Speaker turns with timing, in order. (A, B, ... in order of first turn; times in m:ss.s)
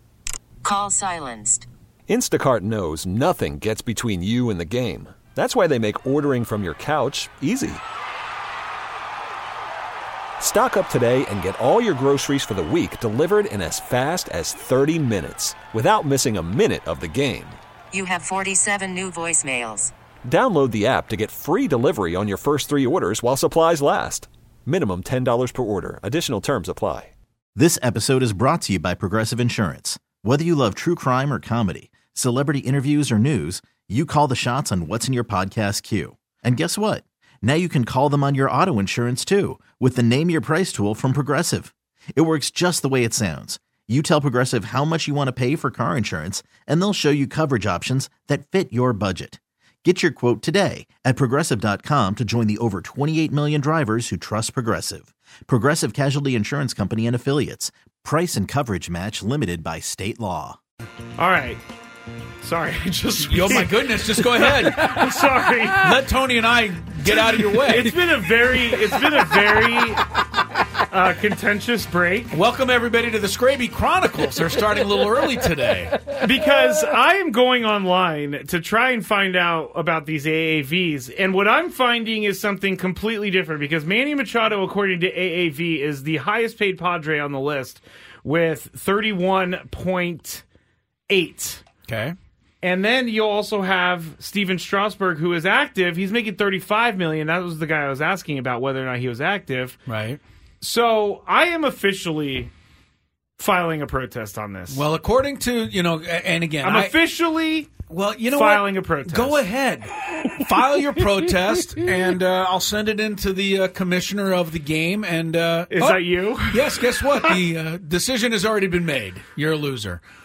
0:00.6-0:01.6 A
0:02.1-0:07.8 B
0:10.4-0:17.6 B
0:17.9-0:19.9 A
0:20.2-0:27.1 B
0:27.6-1:00.6 C
1:01.2-1:01.6 D
1:02.4-1:05.9 D
1:03.2-1:05.1 E
1:05.7-1:08.0 E
1:07.0-1:10.1 D
1:10.9-1:12.3 D
1:12.3-1:16.1 E
1:16.2-1:30.4 D
1:31.1-1:31.6 D
1:31.9-1:32.2 E
1:32.6-1:39.8 D
1:39.9-1:40.2 E
1:40.6-1:42.5 D
1:43.4-1:44.8 D
1:44.7-1:46.9 E
1:46.6-1:49.4 D
1:47.8-2:00.0 E
1:55.7-1:57.4 D